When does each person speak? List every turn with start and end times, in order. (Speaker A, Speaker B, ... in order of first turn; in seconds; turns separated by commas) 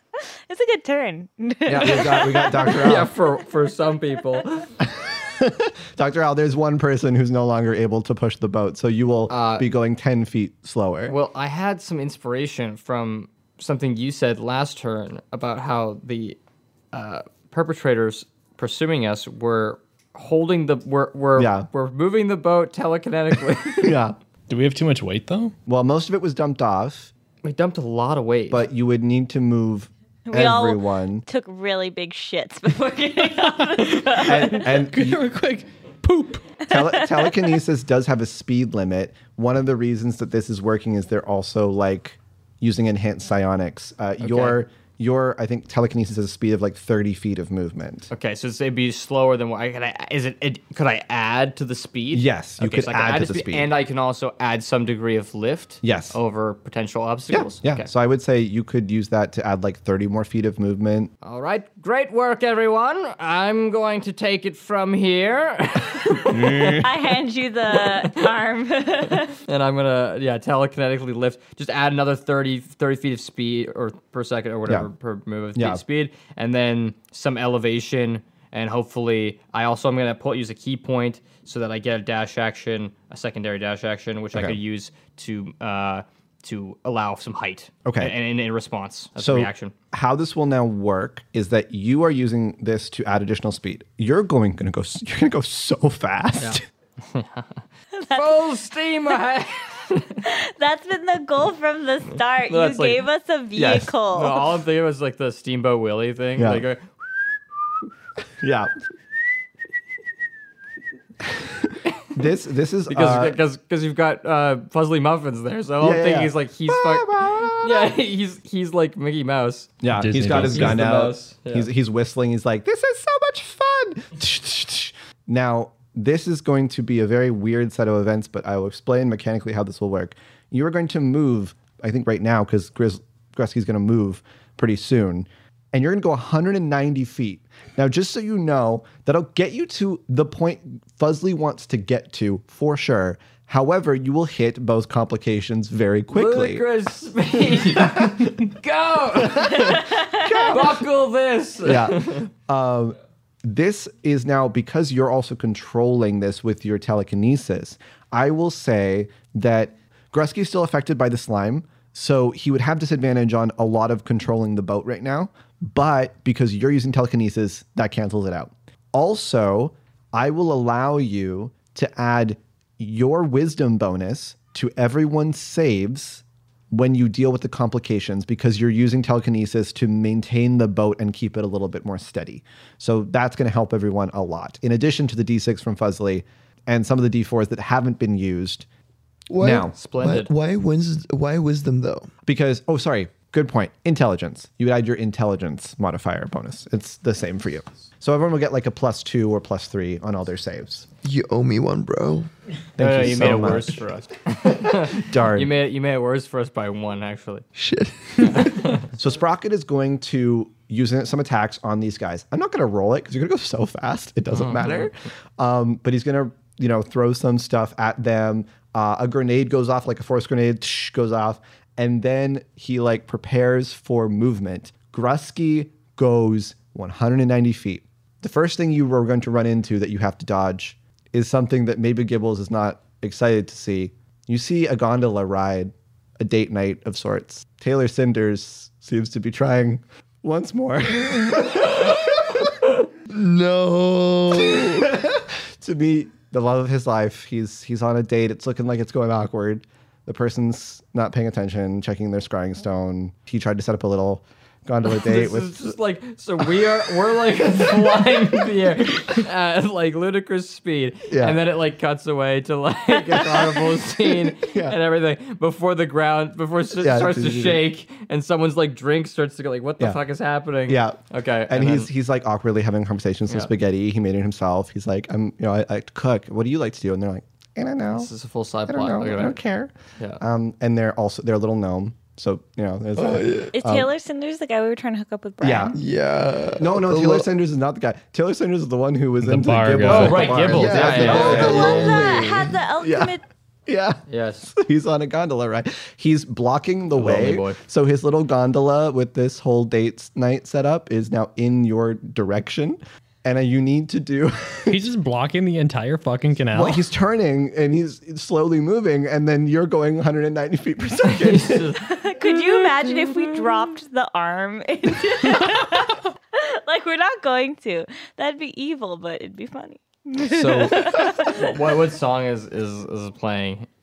Speaker A: 0.5-2.9, Speaker B: 1.6-3.1, Speaker C: 2.6-4.7, Speaker B: 4.8-11.1, Speaker C: 9.3-9.7, Speaker C: 11.1-16.4, Speaker C: 16.9-24.0, Speaker B: 21.4-21.7, Speaker B: 23.8-24.1, Speaker D: 24.5-25.5, Speaker B: 25.7-27.1, Speaker C: 27.4-28.6, Speaker B: 28.5-31.2, Speaker A: 30.3-34.7, Speaker D: 33.3-36.5, Speaker B: 34.2-35.2, Speaker B: 36.7-48.1, Speaker A: 36.7-37.3, Speaker C: 44.2-44.6, Speaker C: 48.1-57.9, Speaker B: 52.1-53.7, Speaker B: 55.8-56.1, Speaker B: 57.3-61.1, Speaker C: 61.2-66.8, Speaker B: 66.3-66.9, Speaker A: 66.8-69.4, Speaker C: 67.7-68.3, Speaker C: 69.1-89.7, Speaker B: 75.5-75.8, Speaker B: 87.8-88.1, Speaker B: 89.2-96.6, Speaker C: 96.4-97.5, Speaker A: 98.0-98.4, Speaker C: 98.1-100.2, Speaker A: 100.2-104.5, Speaker C: 102.2-103.0, Speaker B: 103.5-103.9, Speaker C: 104.1-106.8, Speaker B: 106.4-106.6, Speaker B: 108.4-108.7, Speaker B: 111.4-113.4, Speaker C: 112.9-119.8, Speaker B: 115.8-117.9, Speaker B: 119.8-146.6, Speaker D: 119.9-120.8, Speaker C: 120.5-121.7, Speaker C: 146.1-152.3, Speaker B: 147.6-148.3, Speaker B: 149.2-150.8, Speaker A: 149.4-150.6, Speaker B: 151.6-188.7, Speaker E: 189.3-192.1, Speaker B: 189.4-189.7, Speaker C: 189.8-190.3, Speaker B: 192.2-200.9, Speaker E: 201.0-202.3, Speaker B: 202.8-203.8, Speaker C: 202.8-207.4, Speaker B: 204.9-205.5, Speaker E: 207.6-208.8, Speaker C: 208.2-208.9, Speaker B: 208.9-242.5, Speaker C: 214.3-214.9, Speaker E: 243.1-245.0, Speaker B: 244.4-255.7, Speaker C: 254.9-271.9, Speaker B: 261.1-261.4, Speaker B: 264.3-264.8, Speaker B: 266.8-267.6, Speaker B: 270.7-278.1, Speaker C: 277.9-279.4, Speaker B: 278.7-283.9, Speaker E: 282.9-283.5, Speaker A: 283.5-285.8, Speaker B: 285.4-285.8, Speaker E: 285.7-287.3, Speaker B: 286.6-292.2, Speaker D: 289.2-291.3, Speaker C: 289.8-291.9, Speaker E: 290.5-292.6, Speaker A: 291.1-293.2, Speaker B: 292.8-293.1, Speaker B: 293.7-304.8, Speaker C: 294.1-294.5, Speaker C: 296.9-297.6, Speaker D: 304.7-306.9, Speaker B: 306.5-311.7, Speaker C: 311.0-313.6, Speaker A: 311.9-321.5, Speaker C: 320.2-323.7